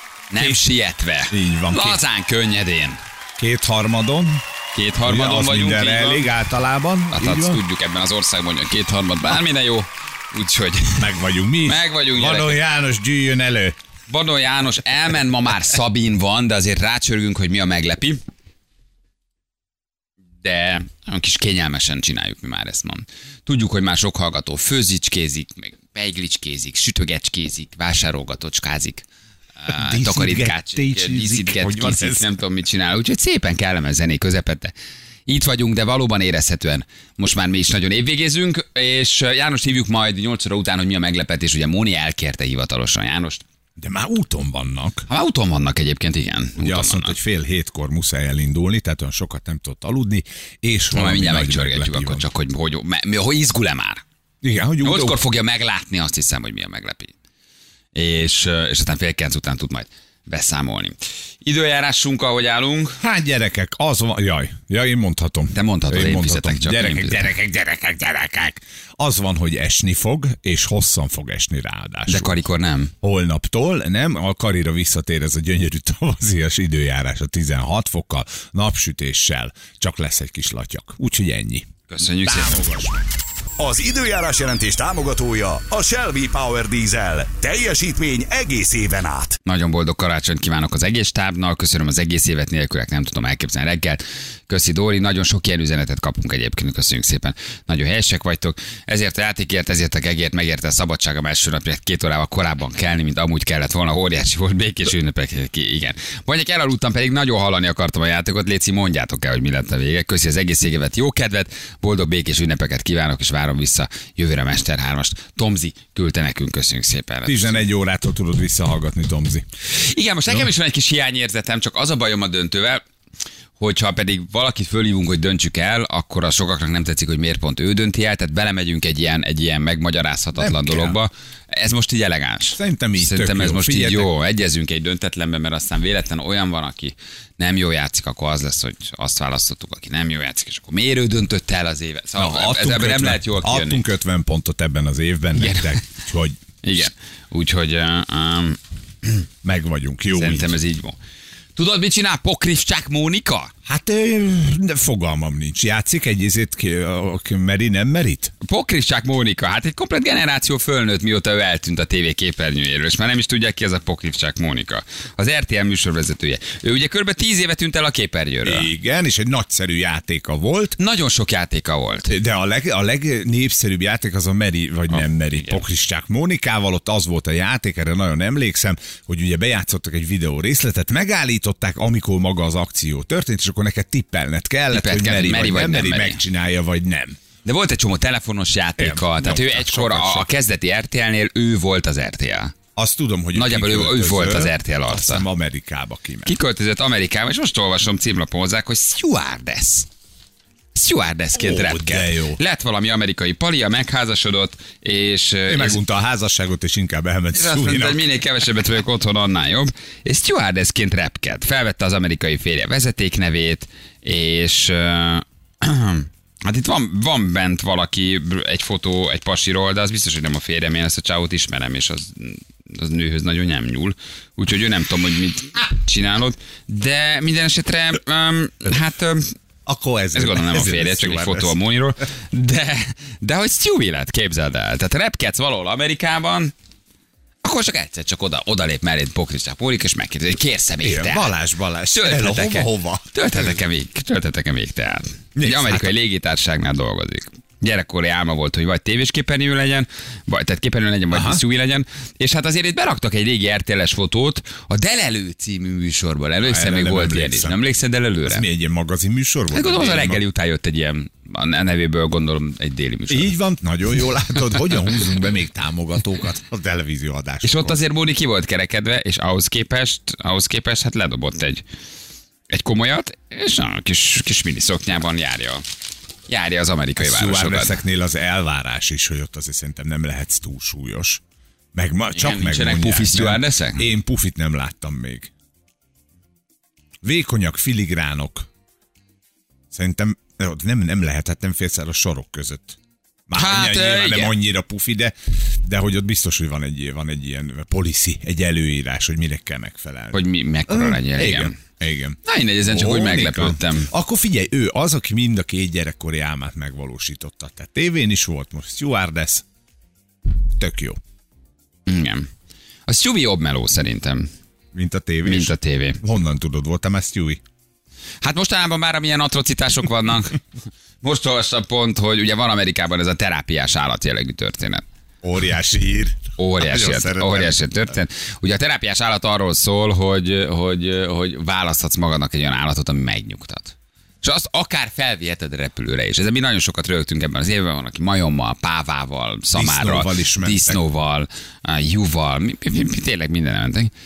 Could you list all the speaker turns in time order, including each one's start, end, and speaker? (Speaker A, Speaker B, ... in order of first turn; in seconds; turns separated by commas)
Speaker A: 0.3-3.0, Speaker B: 0.4-0.6, Speaker B: 1.3-2.0, Speaker B: 3.4-4.4, Speaker A: 4.7-6.3, Speaker B: 5.0-7.6, Speaker A: 7.1-11.1, Speaker B: 11.0-13.8, Speaker A: 11.7-12.6, Speaker A: 14.1-18.2, Speaker A: 20.4-29.1, Speaker A: 29.6-34.7, Speaker B: 29.7-32.3, Speaker A: 35.3-43.4, Speaker B: 43.8-45.1, Speaker A: 45.1-47.2, Speaker B: 46.6-52.3, Speaker A: 50.9-54.0, Speaker B: 54.4-55.2, Speaker A: 54.8-57.1, Speaker A: 57.9-63.0, Speaker B: 63.0-72.4, Speaker A: 65.5-67.3, Speaker A: 72.1-72.9, Speaker B: 73.0-81.7, Speaker A: 81.9-82.7, Speaker B: 82.2-83.0, Speaker C: 83.6-89.4, Speaker A: 89.5-117.6, Speaker B: 117.3-119.5, Speaker A: 119.8-122.8, Speaker A: 123.6-143.8, Speaker B: 130.4-131.0, Speaker B: 132.6-134.1, Speaker B: 142.2-146.4, Speaker A: 145.3-145.8, Speaker A: 146.6-149.2, Speaker B: 149.4-150.6, Speaker A: 150.1-151.0, Speaker A: 151.6-153.5, Speaker B: 153.7-158.3, Speaker A: 158.4-168.7, Speaker B: 168.4-170.8, Speaker A: 170.8-172.1, Speaker B: 172.1-187.2, Speaker A: 174.9-175.6, Speaker A: 184.7-186.2, Speaker A: 187.4-192.5, Speaker B: 188.8-190.3, Speaker B: 192.8-196.3, Speaker A: 193.3-195.2, Speaker A: 196.3-199.9, Speaker A: 200.8-205.8, Speaker B: 201.3-202.4, Speaker B: 205.5-208.1, Speaker A: 207.3-229.3, Speaker B: 229.7-231.6, Speaker A: 230.2-236.5, Speaker A: 237.4-241.3, Speaker B: 240.8-243.6, Speaker A: 241.9-258.5, Speaker B: 245.4-246.0, Speaker B: 251.1-251.4, Speaker B: 256.4-257.6, Speaker B: 258.2-260.2, Speaker A: 259.5-263.4, Speaker B: 263.1-267.8, Speaker A: 264.6-265.1, Speaker A: 267.4-271.6, Speaker A: 272.5-275.6, Speaker A: 276.3-277.8, Speaker B: 277.0-281.2, Speaker B: 281.7-285.3, Speaker A: 282.1-283.9, Speaker B: 287.0-288.5, Speaker B: 289.7-309.4, Speaker A: 293.3-294.4, Speaker A: 300.1-301.6, Speaker A: 302.2-303.9, Speaker B: 310.6-311.0, Speaker A: 311.9-312.3, Speaker A: 312.9-314.3, Speaker B: 314.7-317.4, Speaker A: 315.2-316.0, Speaker A: 318.2-320.4, Speaker A: 321.0-324.8, Speaker B: 325.2-327.7, Speaker A: 326.4-343.9, Speaker B: 339.5-340.8